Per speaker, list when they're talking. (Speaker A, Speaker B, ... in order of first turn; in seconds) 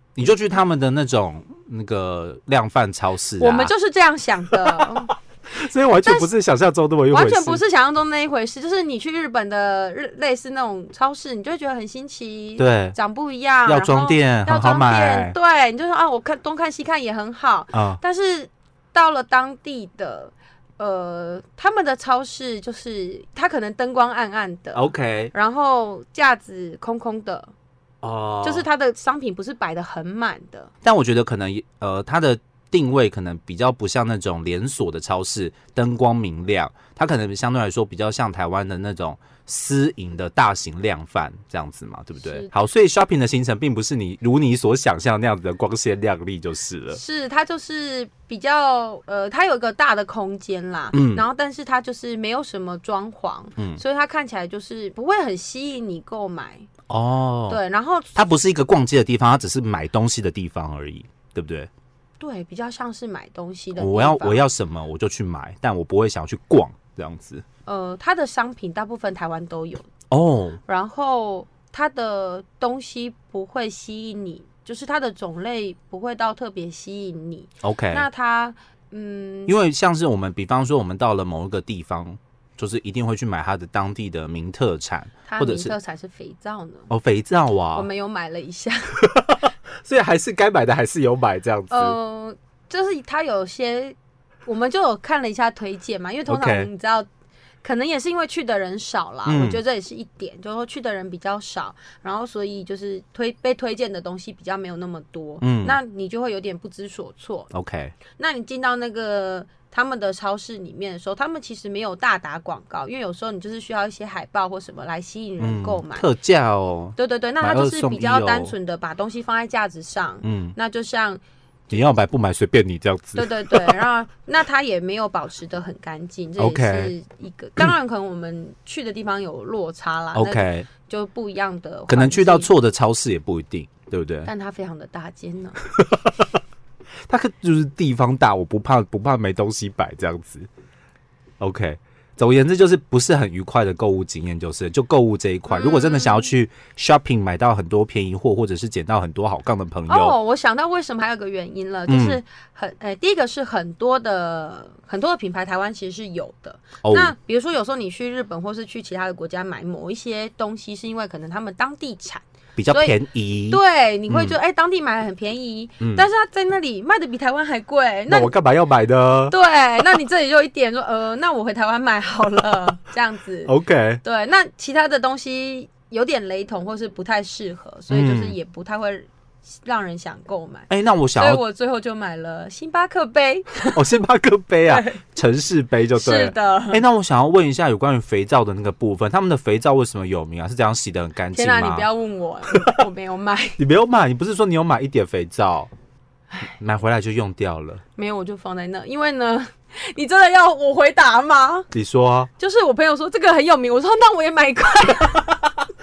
Speaker A: 0.2-3.7, 5.5-7.6, 12.6-13.0, 13.7-15.3, 17.7-18.0, 24.7-25.3, 28.0-28.7, 30.8-47.0, 50.9-51.2, 56.9-57.6, 58.1-61.7, 63.8-67.4, 70.1-70.6, 77.6-78.1, 79.5-85.7, 86.9-87.9, 89.1-92.0, 96.3-96.7, 99.3-99.6, 105.4-105.8, 107.5-108.0, 115.4-118.5, 120.2-120.5, 121.7-123.8, 126.4-126.9, 130.1-130.7, 131.9-134.3, 135.8-136.2, 137.1-140.5, 141.4-150.2, 151.9-152.2, 156.8-157.1, 162.6-164.4, 165.8-166.1, 168.1-169.4, 173.5-174.0, 177.9-178.4, 180.7-181.4, 183.7-191.9, 193.6-195.7, 196.4-197.8, 201.7-202.3
Speaker B: 3.4-5.1, 6.0-6.3, 7.1-27.5, 28.4-30.7, 42.2-42.5, 46.9-56.7, 57.5-58.1, 62.2-64.4, 67.7-69.9, 70.7-79.5, 85.3-86.9, 87.7-88.9, 91.7-97.1, 97.6-107.5, 108.1-116.1, 117.0-121.2, 123.2-132.5, 134.3-135.6, 145.5-146.3, 149.9-168.3, 169.3-179.1, 179.6-183.8, 184.7-185.0, 185.9-186.8, 191.3-193.6, 198.0-201.7, 202.4-205.5